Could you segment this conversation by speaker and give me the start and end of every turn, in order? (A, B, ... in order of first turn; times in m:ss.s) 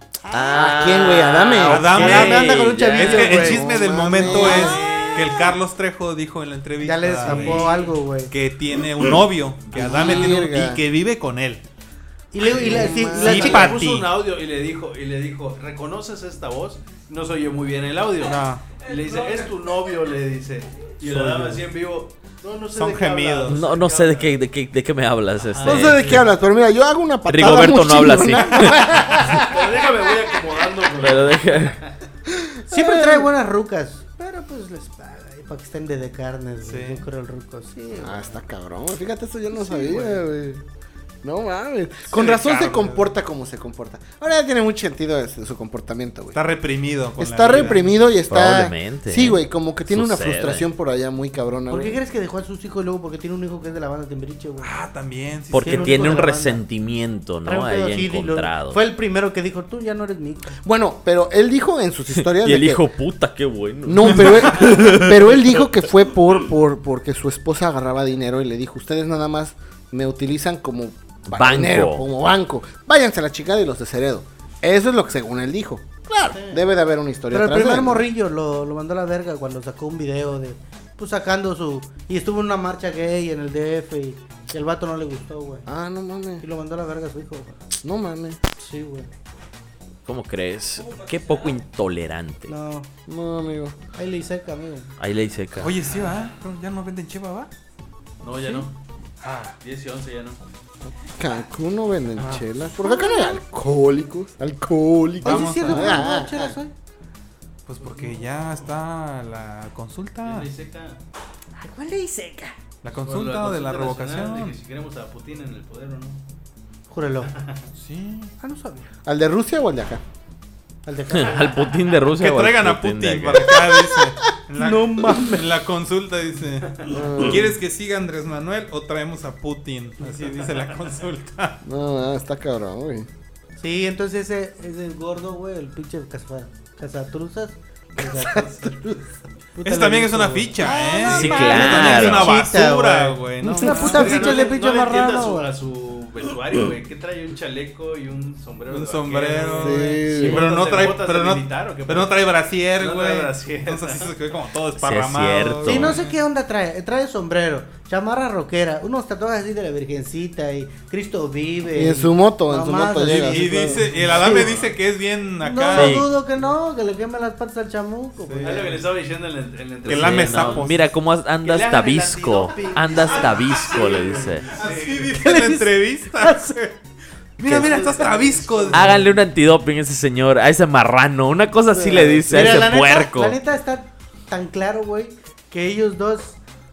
0:00.3-0:00.8 A
0:00.3-0:03.6 B
0:00.5-0:01.9 C
0:01.6-0:04.7 A
0:01.6-0:11.6 D
0:03.3-0:04.8 C
0:04.5-0:05.5 E
0:06.8-0:08.3 A
0:07.2-0:07.9 E
0:09.7-0:10.8 C
0:12.3-0:13.8 A
0:12.4-0:24.4 E
0:12.6-0:13.5 C
0:12.6-0:14.1 D
0:18.2-0:18.7 D
0:21.1-0:21.6 A
0:22.7-0:23.6 D
0:23.5-0:26.0 B
0:25.5-0:26.2 E
0:25.6-0:29.9 C
0:27.3-0:29.1 B
0:29.3-0:31.9 E
0:31.0-0:31.8 B
0:32.3-0:33.3 C
0:32.7-0:38.2 A
0:36.6-0:37.0 D
0:38.0-0:40.6 C
0:41.2-0:46.4 C
0:42.1-0:43.1 D
0:46.3-0:47.8 D
0:47.2-0:52.0 C
0:47.5-0:47.9 A
0:48.3-0:50.6 B
0:51.7-0:54.7 A
0:54.6-0:56.2 D
0:55.5-0:58.8 B
0:55.6-0:56.6 A
0:57.4-1:00.6 A
1:00.6-1:02.8 C
1:02.1-1:05.4 B
1:03.8-1:18.0 C
1:11.3-1:12.0 B
1:16.3-1:16.6 A
1:17.3-1:25.6 A
1:25.7-1:26.4 C
1:26.4-1:27.6 A
1:27.8-1:28.4 C
1:28.6-1:29.1 A
1:30.0-1:32.5 B
1:32.5-1:32.9 A
1:33.1-1:33.8 C
1:33.9-1:34.9 A
1:35.0-1:35.7 B
1:35.6-1:37.5 D
1:35.8-1:36.3 E
1:38.2-1:38.7 E
1:39.2-1:40.4 E
1:41.2-1:46.5 C
1:42.2-1:43.4 A
1:45.2-1:46.7 A
1:45.2-1:46.0 D
1:47.6-1:50.5 D
1:47.9-1:48.4 E
1:50.2-1:51.0 E
1:51.6-1:52.5 A
1:52.8-1:54.6 D
1:53.0-1:56.2 E
1:56.9-1:57.3 A
1:57.3-1:57.6 E
1:57.7-1:58.3 D
1:58.4-1:58.9 A
1:59.0-2:00.0 C
2:00.8-2:01.8 A
2:01.1-2:03.5 B
2:02.1-2:11.6 D
2:03.7-2:04.0 C
2:04.6-2:05.5 A
2:06.9-2:07.6 C
2:11.6-2:13.1 C
2:13.6-2:18.9 A
2:18.0-2:19.0 C
2:19.5-2:25.5 A
2:19.6-2:24.5 D
2:20.6-2:21.8 E
2:21.0-2:22.4 B
2:23.6-2:34.1 E
2:28.7-2:36.0 D
2:29.6-2:30.4 C
2:34.8-2:36.0 B
2:35.6-2:44.5 A
2:41.7-2:43.8 C
2:43.1-2:46.1 D
2:43.8-2:44.7 E
2:45.4-2:48.8 A
2:45.7-2:46.1 B
2:48.2-2:48.8 D
2:48.4-2:50.7 E
2:49.8-2:54.5 B
2:49.8-2:50.9 D
2:51.4-2:55.2 E
2:52.4-2:53.2 A
2:54.5-2:56.8 D
2:55.1-2:56.6 A
2:57.4-2:59.0 D
2:57.4-2:59.0 A
2:57.9-2:59.0 E
2:58.7-3:03.4 B
3:01.7-3:06.4 A